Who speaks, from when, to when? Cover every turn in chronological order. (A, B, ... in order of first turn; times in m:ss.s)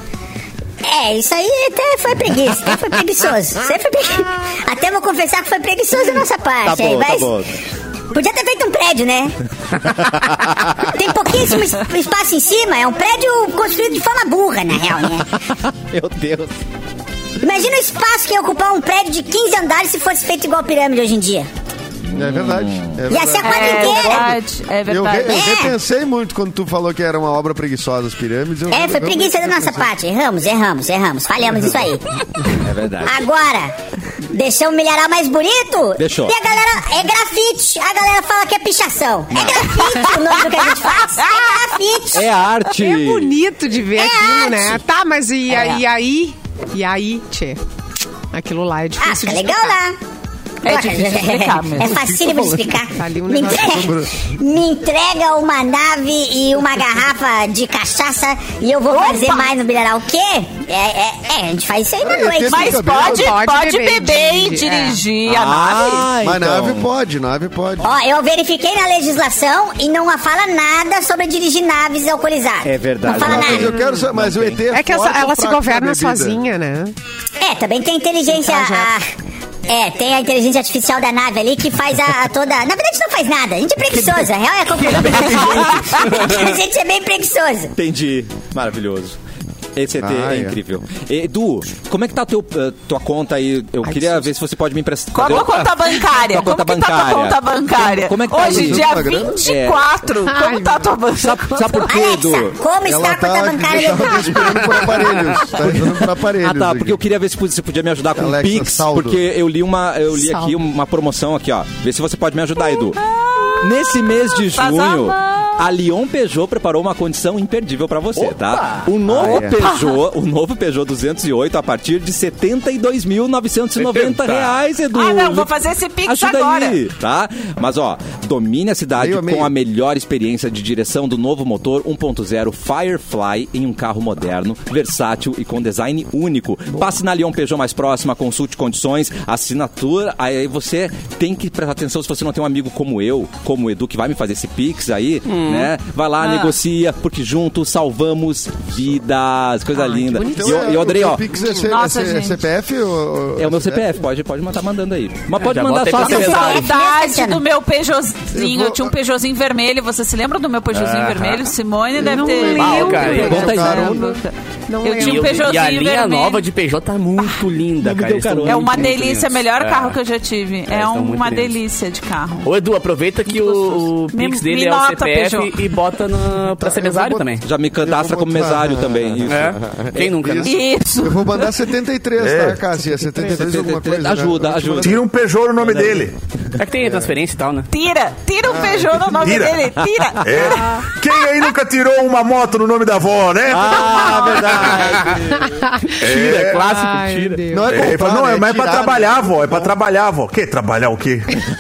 0:00.8-0:07.3 A
0:06.6-0:07.5 B
0:08.1-0:09.4 A
0:10.8-0:15.3 A
0:15.5-0:16.6 B
0:17.4-0:21.5 A
0:22.1-0:23.0 B
0:22.1-0:29.9 C
0:23.1-0:24.4 A
0:23.4-0:25.5 D
0:25.3-0:25.8 A
0:28.7-0:32.2 A
0:32.6-0:33.2 B
0:33.0-0:33.7 A
0:34.3-0:42.3 A
0:36.0-0:36.4 B
0:39.3-0:40.1 B
0:40.4-0:41.6 D
0:42.1-0:43.4 B
0:42.8-0:47.6 E
0:44.0-0:44.8 A
0:45.5-0:45.8 D
0:48.3-0:49.8 E
0:49.0-0:50.0 A
0:50.6-0:52.1 D
0:50.6-1:02.8 A
0:51.9-0:52.7 C
0:52.9-0:54.0 E
0:53.5-0:54.2 C
0:58.9-0:59.5 D
1:02.0-1:03.4 C
1:02.5-1:06.1 D
1:03.0-1:05.0 E
1:05.3-1:06.9 B
1:06.2-1:07.9 C
1:07.8-1:13.7 A
1:12.6-1:14.6 B
1:13.1-1:16.4 C
1:13.5-1:14.0 E
1:14.7-1:16.9 E
1:17.4-1:19.1 A
1:18.4-1:18.9 E
1:19.7-1:27.7 A
1:24.8-1:26.4 F
1:25.8-1:26.0 D
1:27.8-1:29.2 B
1:29.8-1:39.8 B
1:30.0-1:30.6 C
1:35.1-1:41.9 D
1:38.4-1:39.4 C
1:40.3-1:40.9 E
1:41.2-1:42.6 B
1:41.8-1:44.6 A
1:42.8-1:47.0 C
1:46.4-1:53.0 B
1:48.2-1:49.2 C
1:50.2-1:50.5 E
1:52.7-1:55.7 D
1:53.6-2:05.5 B
1:58.2-1:58.9 F
1:59.1-1:59.6 C
1:59.6-2:00.0 D
2:03.8-2:04.6 F
2:04.9-2:06.8 D
2:06.1-2:31.2 B
2:09.0-2:09.5 C
2:25.3-2:25.7 F
2:26.2-2:26.6 D
2:29.8-2:30.6 E
2:30.2-2:33.9 C
2:31.4-2:32.4 D
2:33.4-2:36.6 B
2:35.4-2:36.6 F
2:36.0-2:37.4 A
2:36.2-2:46.5 D
2:38.3-2:39.0 C
2:40.7-2:41.5 F
2:42.0-2:44.2 C
2:42.1-2:44.1 E
2:42.6-2:43.5 F
2:43.2-2:43.9 B
2:44.7-2:45.5 E
2:45.0-2:50.0 F
2:47.8-2:49.1 B
2:48.5-2:52.5 D
2:50.7-2:51.6 F
2:52.4-2:57.4 F
2:53.3-2:55.6 D
2:56.6-3:05.0 C
2:57.4-2:59.6 B
2:59.3-3:00.6 F
3:00.4-3:01.6 D
3:02.2-3:02.6 G
3:03.1-3:05.0 B
3:04.8-3:06.2 G
3:06.6-3:07.7 F
3:07.7-3:11.5 D
3:08.5-3:09.1 C
3:09.2-3:09.6 G
3:10.2-3:14.2 G
3:13.5-3:15.5 B
3:13.9-3:14.5 D
3:14.6-3:15.2 F
3:15.4-3:16.0 E
3:16.0-3:17.4 F
3:16.0-3:16.6 G
3:16.5-3:17.7 E
3:17.5-3:19.7 C
3:17.7-3:21.4 G